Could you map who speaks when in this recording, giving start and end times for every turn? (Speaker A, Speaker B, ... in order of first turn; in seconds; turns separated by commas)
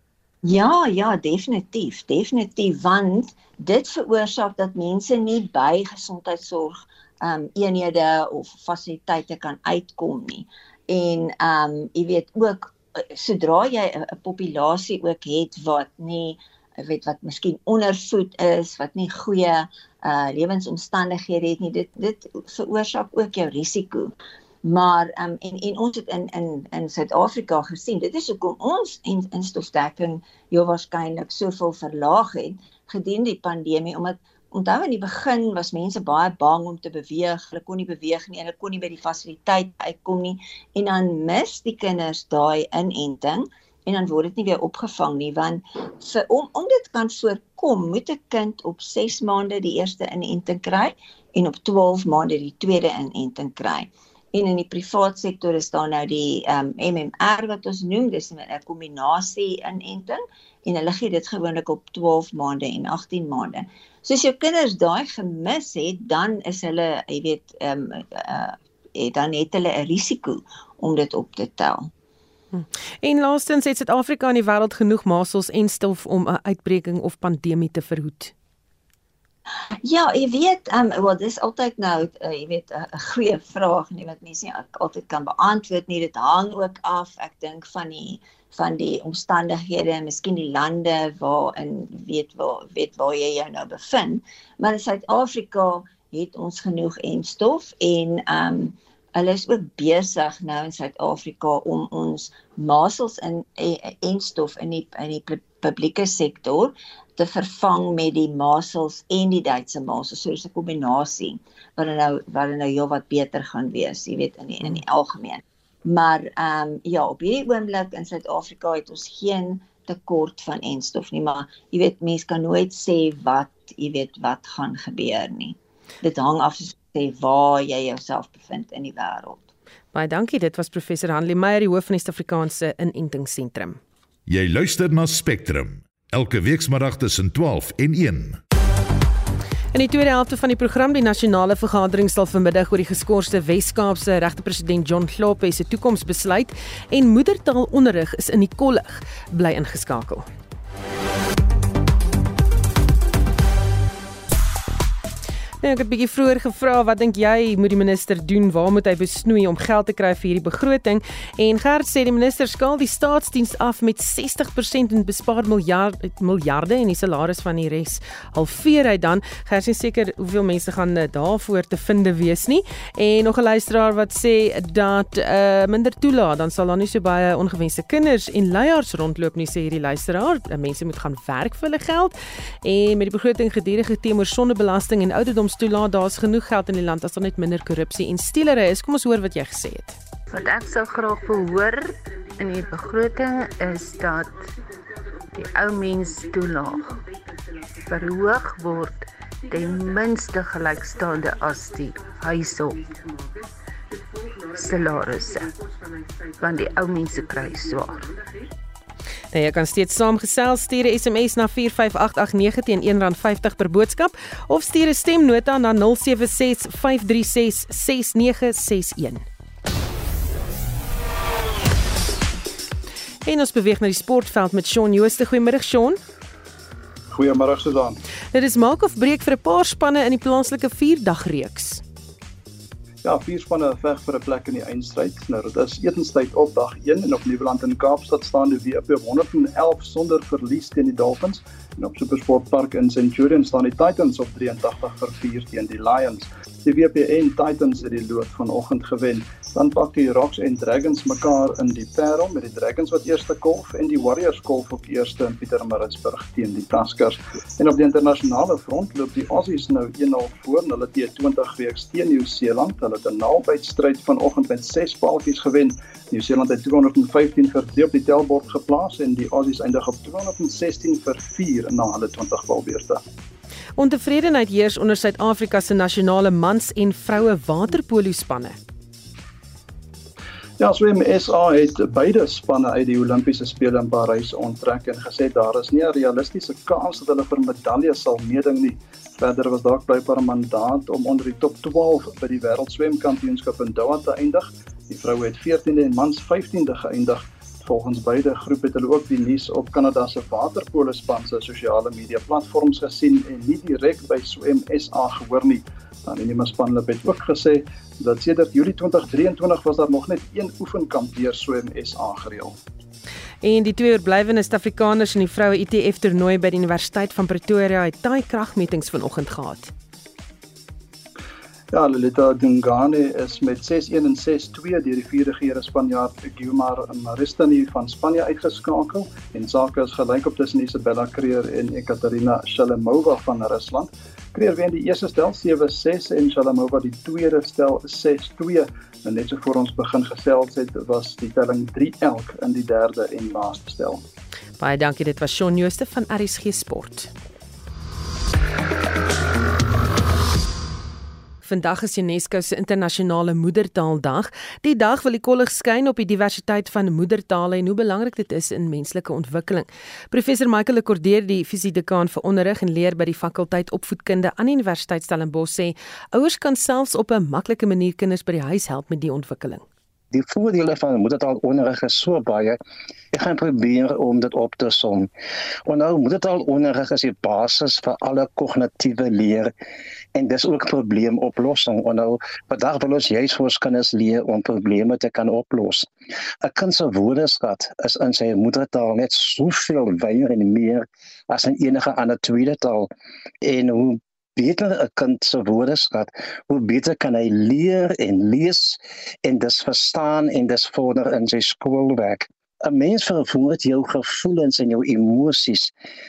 Speaker A: 0.4-71.9, Speaker B: 72.5-78.3, Speaker A: 79.8-129.5, Speaker B: 129.9-133.8, Speaker C: 134.3-138.4, Speaker B: 139.7-150.2, Speaker B: 155.6-189.9, Speaker D: 190.3-194.4, Speaker D: 195.4-197.0, Speaker D: 197.9-202.9, Speaker D: 204.5-205.5, Speaker D: 206.4-208.1, Speaker B: 209.3-219.2, Speaker B: 223.2-226.0, Speaker E: 227.1-228.0, Speaker B: 228.3-231.8, Speaker E: 233.0-273.0, Speaker B: 273.8-278.6, Speaker E: 280.6-312.6, Speaker B: 313.4-319.7, Speaker E: 321.7-344.0, Speaker B: 344.6-347.1, Speaker B: 351.4-369.6, Speaker F: 370.1-372.6, Speaker F: 373.1-375.1, Speaker F: 375.6-379.5, Speaker F: 380.1-385.9, Speaker F: 386.4-392.9, Speaker F: 393.4-405.7